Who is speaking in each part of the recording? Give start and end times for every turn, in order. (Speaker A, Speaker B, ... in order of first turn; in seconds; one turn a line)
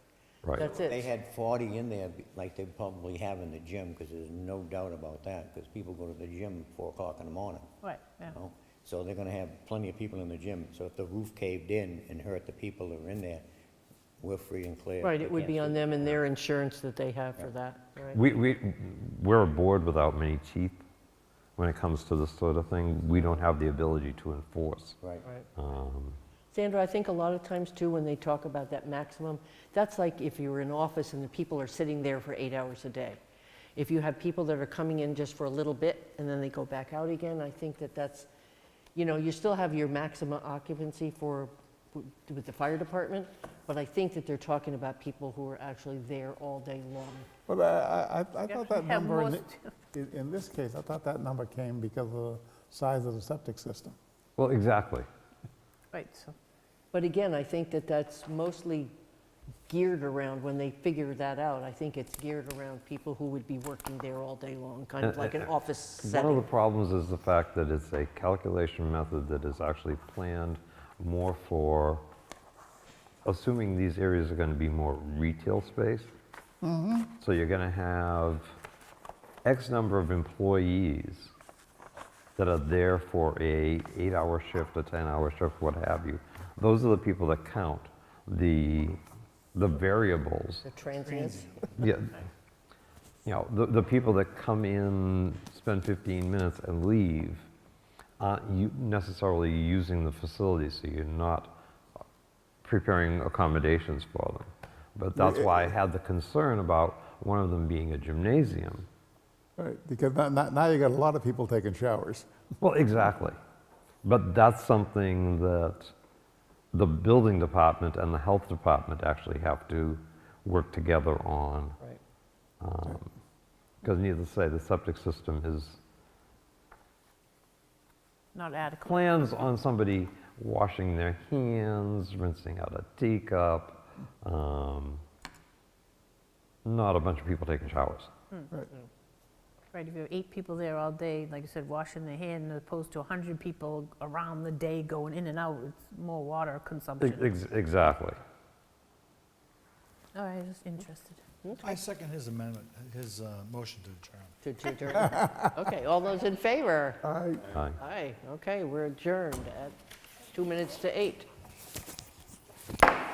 Speaker A: 0.5-1.1
Speaker B: 0.6-13.4
Speaker C: 7.8-8.3
Speaker B: 14.2-16.2
Speaker A: 15.0-18.2
Speaker D: 18.1-20.8
Speaker D: 21.6-25.0
Speaker B: 25.0-25.3
Speaker D: 25.6-26.2
Speaker A: 26.5-33.2
Speaker A: 33.8-38.3
Speaker A: 38.9-47.3
Speaker E: 47.5-54.0
Speaker C: 48.5-49.7
Speaker D: 54.4-55.1
Speaker C: 55.9-56.3
Speaker A: 56.9-58.9
Speaker A: 59.7-66.5
Speaker D: 65.0-65.5
Speaker D: 66.0-72.0
Speaker D: 73.2-76.1
Speaker E: 76.6-77.1
Speaker D: 77.2-78.5
Speaker D: 79.4-81.3
Speaker D: 82.4-89.0
Speaker D: 89.5-90.7
Speaker A: 90.6-91.7
Speaker F: 91.1-91.7
Speaker D: 91.8-92.1
Speaker D: 93.2-97.5
Speaker D: 98.2-101.5
Speaker D: 102.6-108.9
Speaker E: 105.2-105.7
Speaker E: 109.6-112.3
Speaker D: 112.6-113.4
Speaker D: 114.0-115.9
Speaker D: 116.7-121.8
Speaker D: 122.6-123.1
Speaker D: 123.8-125.8
Speaker C: 128.3-129.5
Speaker D: 128.8-135.0
Speaker D: 136.6-138.1
Speaker C: 139.7-147.3
Speaker D: 147.0-148.2
Speaker C: 150.1-151.2
Speaker A: 151.4-151.7
Speaker F: 151.6-154.4
Speaker A: 154.4-157.0
Speaker E: 155.0-155.5
Speaker E: 157.0-157.4
Speaker A: 157.8-159.8
Speaker A: 160.3-161.3